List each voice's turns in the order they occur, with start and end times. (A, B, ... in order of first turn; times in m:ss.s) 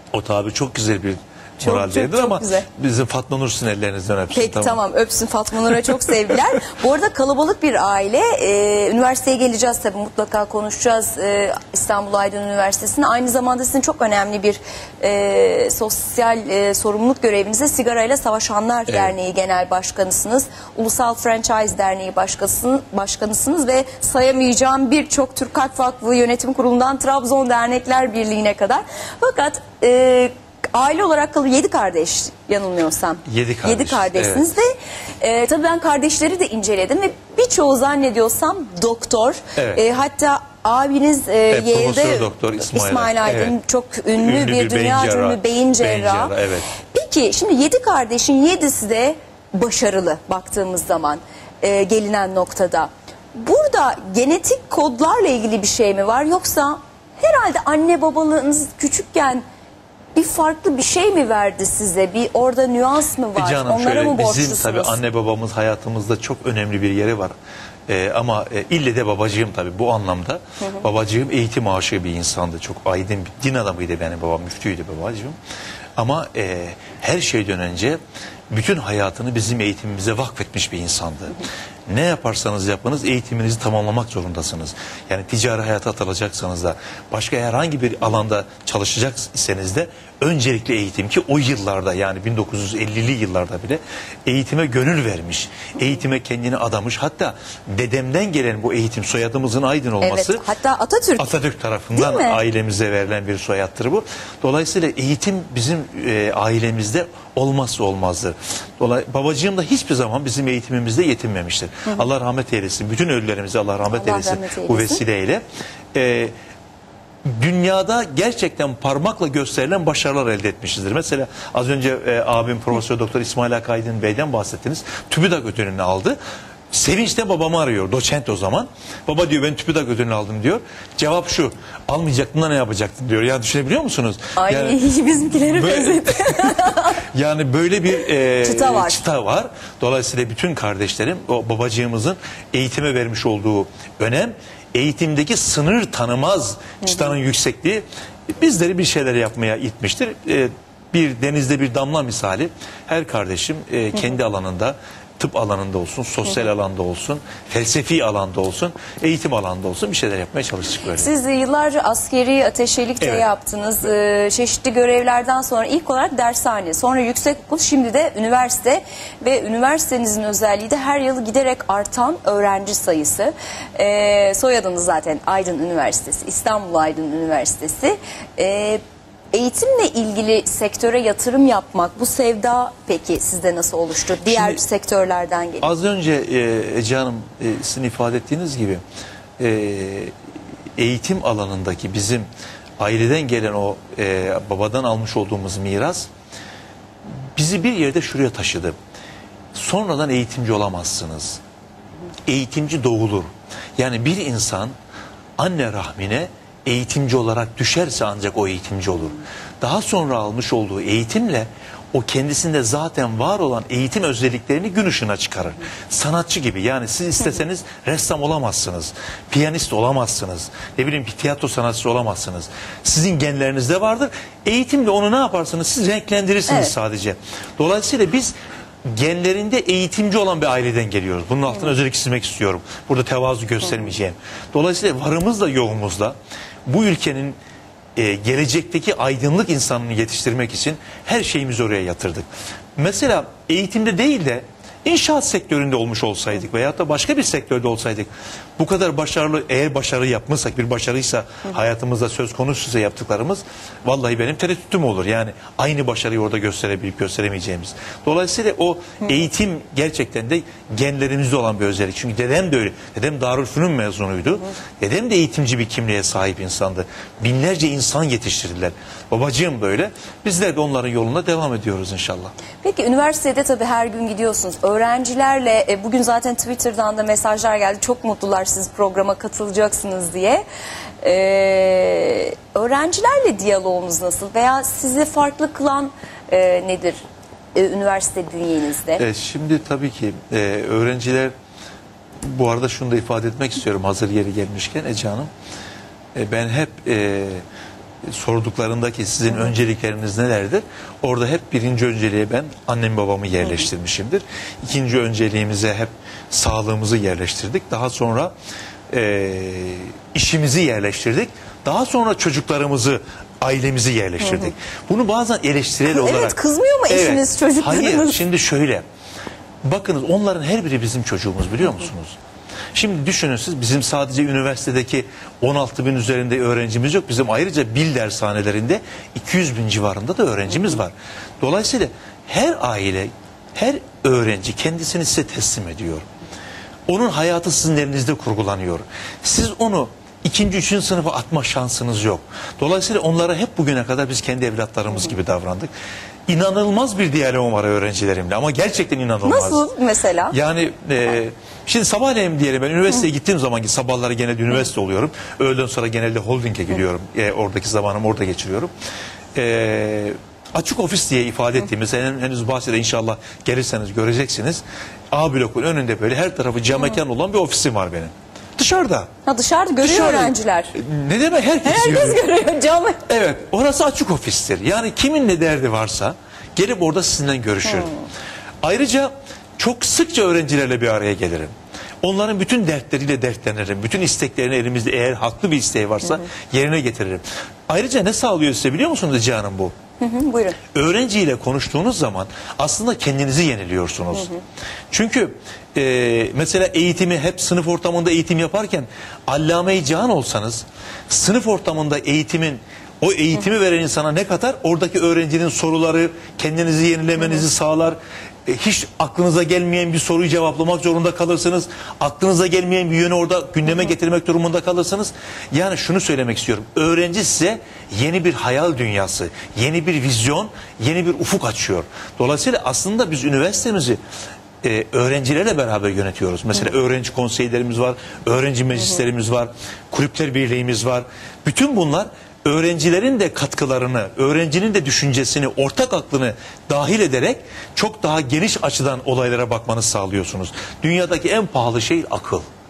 0:00.1-0:04.8 A
0:01.6-0:02.6 B
0:04.3-0:59.4 B
0:18.9-0:19.1 A
0:33.3-0:34.4 A
0:39.6-0:39.8 A
0:41.5-0:43.6 A
0:44.2-0:46.7 A
1:00.1-1:05.0 B
1:03.4-1:07.3 A
1:07.9-1:15.4 A
1:16.0-1:18.0 A
1:18.5-1:40.4 A
1:40.0-1:41.4 B
1:41.2-1:56.3 A
1:41.9-1:42.4 B
1:53.9-1:55.0 B
1:57.2-2:06.2 A
2:06.7-2:14.8 A
2:14.4-2:17.0 B
2:15.4-2:41.1 A
2:18.2-2:19.0 B
2:41.0-2:58.8 B
2:43.0-2:43.3 A
2:59.3-3:05.7 B
3:04.2-3:04.6 A
3:05.6-3:08.8 A
3:09.4-3:10.1 A
3:10.8-3:12.3 A
3:12.8-3:16.1 A
3:17.3-3:18.8 A
3:19.5-3:21.4 A
3:22.3-3:24.7 A
3:25.4-3:48.3 A
3:46.5-3:46.7 B
3:48.9-3:57.4 A
3:58.0-4:32.3 A
4:32.6-4:40.4 B
4:41.0-4:47.0 B
4:47.5-4:49.0 B
4:49.0-4:51.3 A
4:52.2-4:55.3 A
4:56.1-4:57.4 A
4:58.1-5:08.3 A
5:08.9-5:16.4 A
5:14.2-5:14.5 B
5:15.9-5:18.2 B
5:16.9-5:18.8 A
5:19.6-5:22.2 A
5:22.7-5:36.0 A
5:36.9-5:45.7 A
5:46.3-5:49.6 A
5:49.2-5:50.4 B
5:50.3-5:58.7 A
5:59.3-6:09.1 A
6:09.2-6:10.7 B
6:09.8-6:12.2 A
6:11.6-6:13.0 B
6:13.1-6:17.9 A
6:18.6-6:29.7 A
6:30.0-6:30.6 B
6:30.7-6:34.3 A
6:34.1-6:34.4 B
6:34.9-7:04.0 A
7:04.6-7:22.4 A